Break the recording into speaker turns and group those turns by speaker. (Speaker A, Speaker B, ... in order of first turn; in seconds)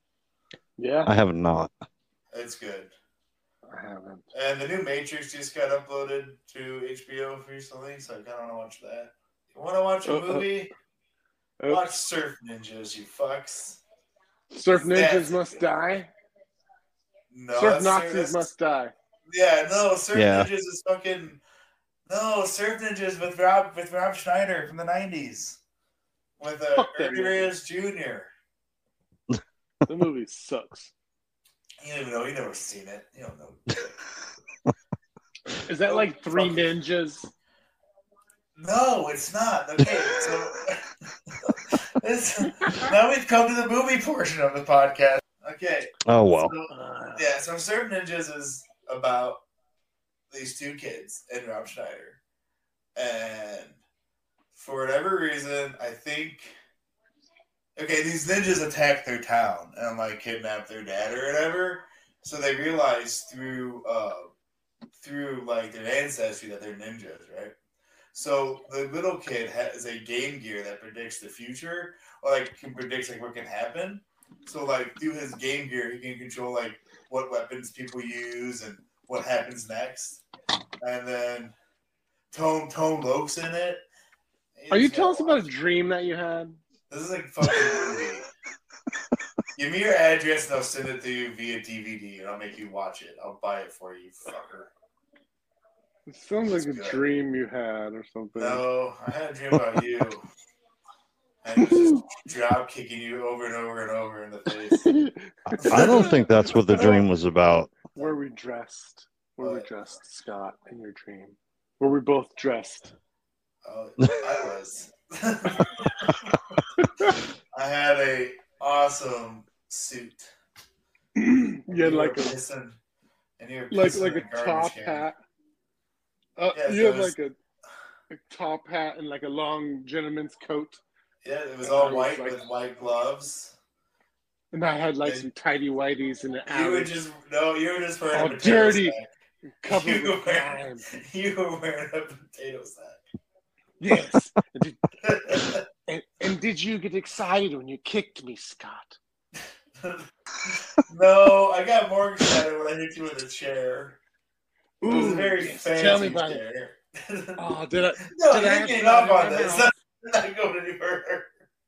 Speaker A: 0.8-1.1, 3.7-4.2, 10.1-10.5, 11.6-11.9, 14.5-16.1, 17.5-18.9, 26.8-27.5, 29.9-30.9, 35.7-37.3, 46.7-47.3, 84.7-86.6, 96.1-98.6, 101.6-102.0, 104.7-107.0, 108.0-112.9, 121.2-122.4, 123.7-125.2, 126.4-127.3, 128.1-130.8, 131.6-132.5, 134.5-136.9, 138.1-139.0, 139.6-140.9, 143.8-149.0, 154.8-156.4, 157.4-159.7
Speaker B: 1.1-1.8, 20.1-20.5, 46.1-46.5, 105.5-107.7
Speaker C: 2.3-2.9, 4.3-10.7, 11.7-13.8, 14.9-15.5, 17.3-18.5, 19.3-21.4, 22.1-25.6, 26.4-28.3, 31.8-34.0, 35.9-36.7, 38.6-49.4, 50.3-52.2, 53.0-53.8, 54.5-56.5, 57.8-64.3, 65.0-67.5, 68.1-80.2, 80.8-81.5, 82.3-83.8, 84.6-85.5, 86.9-88.3, 89.5-94.7, 96.5-97.0, 98.4-100.2, 101.4-104.9, 105.6-106.2, 113.7-116.3, 117.5-120.3, 121.7-122.8, 123.4-125.1, 126.5-127.2, 131.2-133.5, 136.5-139.1, 139.7-143.0, 145.0-145.6, 149.8-154.0, 154.9-157.4, 158.1-161.3